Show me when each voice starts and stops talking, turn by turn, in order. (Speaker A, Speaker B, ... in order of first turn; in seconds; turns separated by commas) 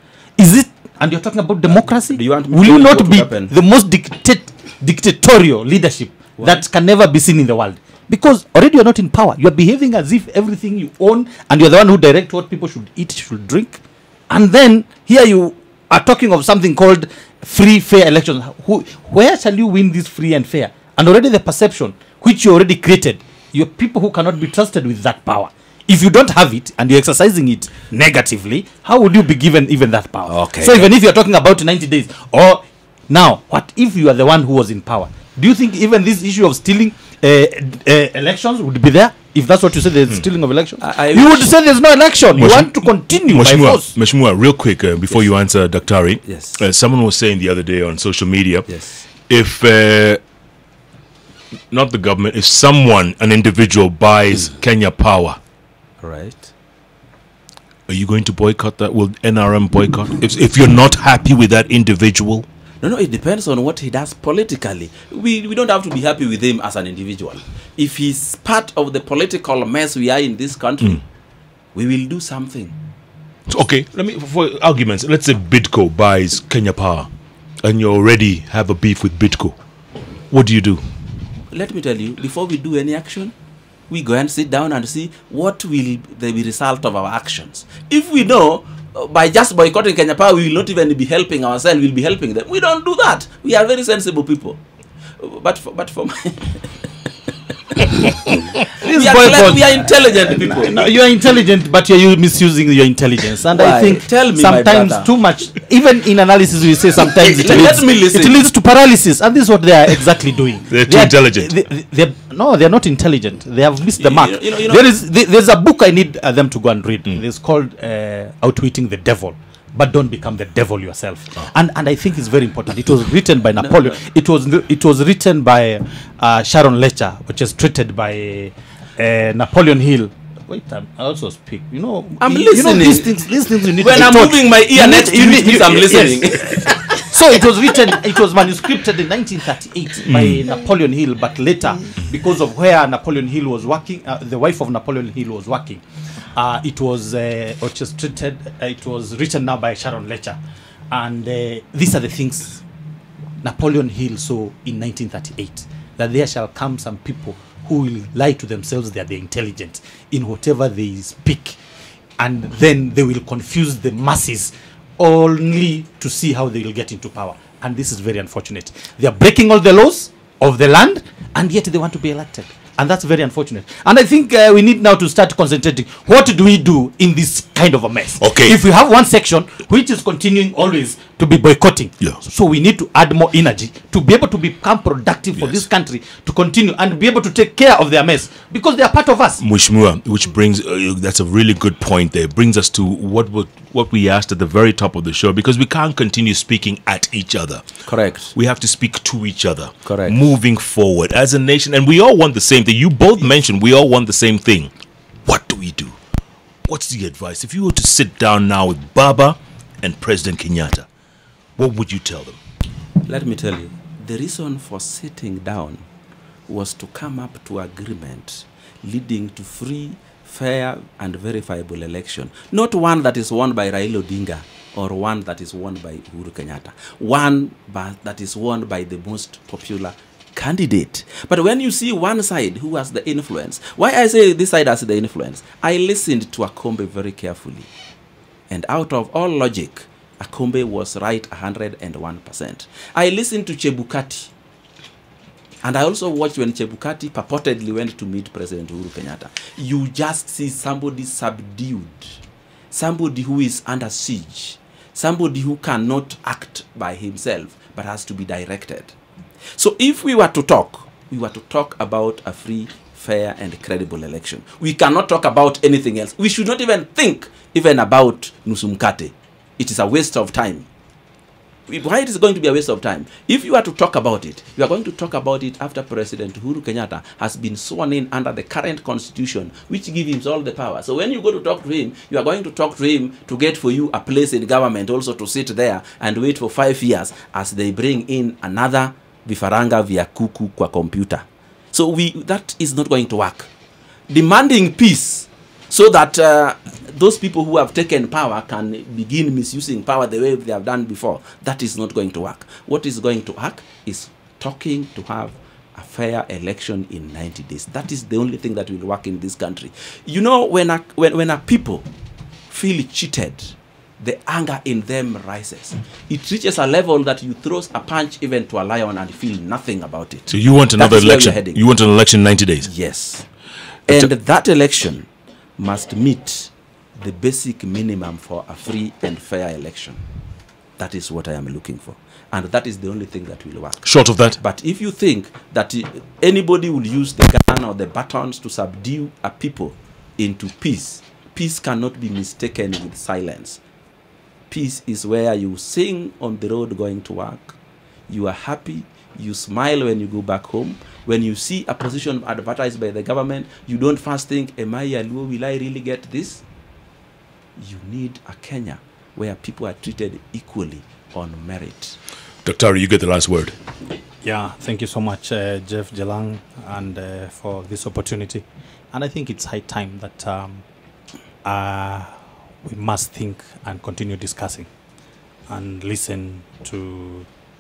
Speaker A: 0.4-43.9, Speaker B: 1.7-3.5, Speaker B: 30.3-30.9, Speaker B: 40.8-41.5, Speaker C: 42.4-48.7, Speaker B: 46.2-46.6, Speaker B: 48.7-49.0, Speaker C: 49.3-50.2, Speaker C: 51.7-55.4, Speaker B: 56.0-56.5, Speaker C: 57.9-62.5, Speaker B: 62.8-71.0, Speaker B: 71.7-72.8, Speaker C: 73.5-77.1, Speaker C: 77.6-79.5, Speaker C: 80.3-80.8, Speaker B: 81.5-83.3, Speaker B: 83.9-94.6, Speaker B: 95.2-96.7, Speaker B: 97.7-100.9, Speaker A: 98.7-145.8, Speaker B: 103.5-105.1, Speaker B: 107.2-108.4, Speaker C: 110.7-111.5, Speaker B: 114.0-114.8, Speaker B: 132.2-133.1, Speaker B: 133.8-136.9, Speaker C: 140.1-140.4, Speaker A: 146.3-150.4, Speaker A: 150.9-152.6, Speaker A: 153.4-161.6, Speaker A: 162.2-189.4, Speaker C: 178.2-178.6, Speaker C: 189.4-197.6, Speaker B: 197.9-198.3, Speaker C: 198.3-204.7, Speaker B: 199.8-200.2, Speaker C: 205.3-206.0, Speaker C: 206.7-210.9, Speaker C: 211.6-212.4, Speaker B: 213.1-215.8, Speaker B: 216.5-237.7, Speaker B: 238.5-244.3, Speaker B: 245.6-252.2, Speaker B: 252.7-258.9, Speaker B: 259.6-270.7, Speaker B: 271.7-293.5, Speaker B: 294.1-311.9, Speaker B: 312.5-321.6, Speaker C: 320.3-322.7, Speaker B: 322.6-323.3, Speaker B: 323.9-330.0, Speaker B: 330.8-343.6, Speaker C: 333.9-334.4, Speaker B: 344.5-347.6, Speaker B: 348.1-356.4, Speaker B: 357.6-362.0, Speaker C: 362.4-363.6, Speaker A: 364.2-370.6, Speaker A: 371.4-374.7, Speaker A: 375.5-377.3